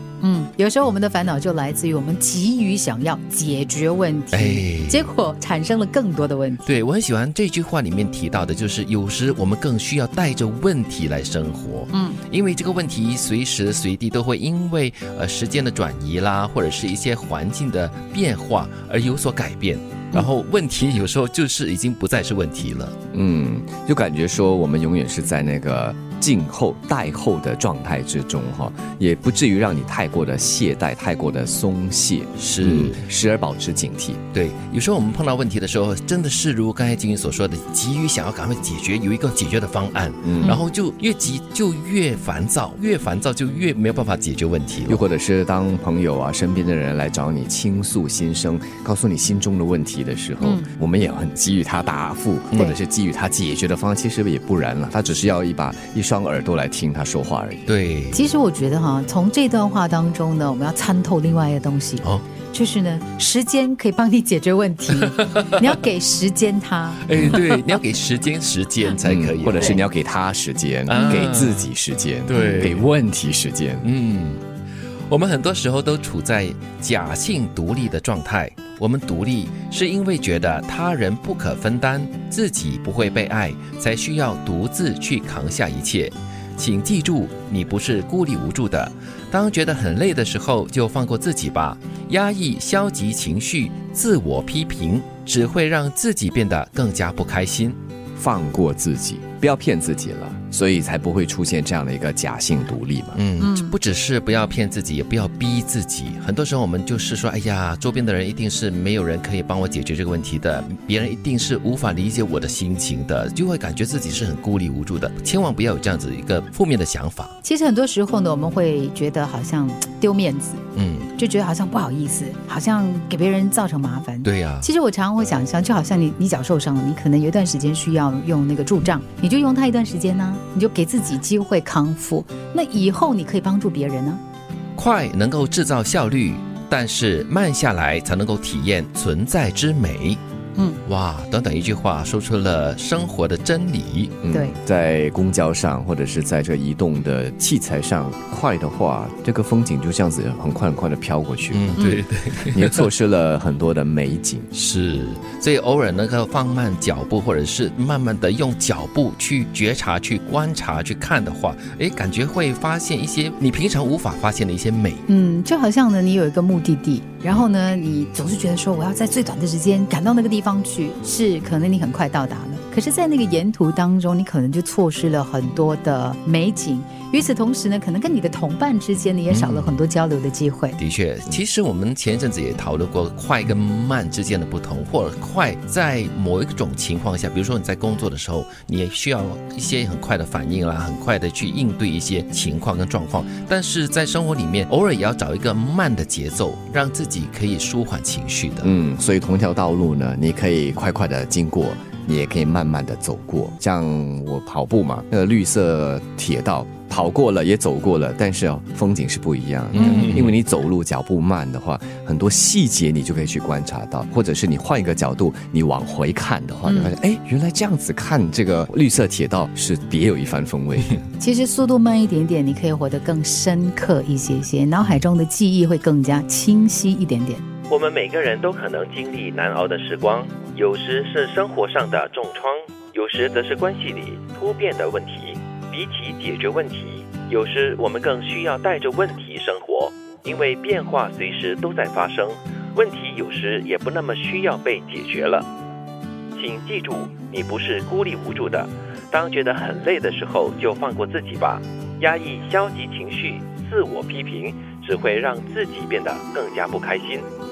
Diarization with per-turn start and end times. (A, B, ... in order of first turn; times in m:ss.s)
0:00.2-0:06.7 A
0:04.3-0:05.1 B
0:06.7-0:22.9 B
0:11.9-0:12.2 A
0:23.1-0:34.2 C
0:32.4-0:33.0 B
0:34.3-0:45.0 B
0:40.2-0:40.6 C
0:44.8-0:57.6 C
0:50.4-0:50.7 A
0:57.7-0:58.3 B
0:58.1-1:07.4 A
1:05.0-1:05.8 B
1:07.0-1:09.8 B
1:09.0-1:13.9 C
1:10.9-1:11.7 B
1:10.9-1:11.3 A
1:12.3-1:12.9 B
1:13.8-1:14.4 B
1:15.1-1:37.8 B
1:38.2-1:43.2 C
1:43.2-1:57.3 B
1:43.4-1:43.8 A
1:57.4-2:00.6 A
2:00.8-2:01.1 B
2:01.2-2:14.2 A
2:04.2-2:04.7 B
2:14.8-2:20.2 B
2:20.8-2:24.1 B
2:24.2-2:34.5 C
2:24.3-2:24.6 A
2:31.5-2:32.9 B
2:34.5-2:45.1 B
2:45.1-3:00.8 A
2:59.3-2:59.8 B
3:00.8-3:18.7 B
3:18.6-3:41.0 C
3:29.7-3:30.4 B
3:29.8-3:30.2 A
3:36.7-3:36.9 A
3:41.2-3:47.4 A
3:47.7-4:05.5 B
4:06.3-4:17.3 B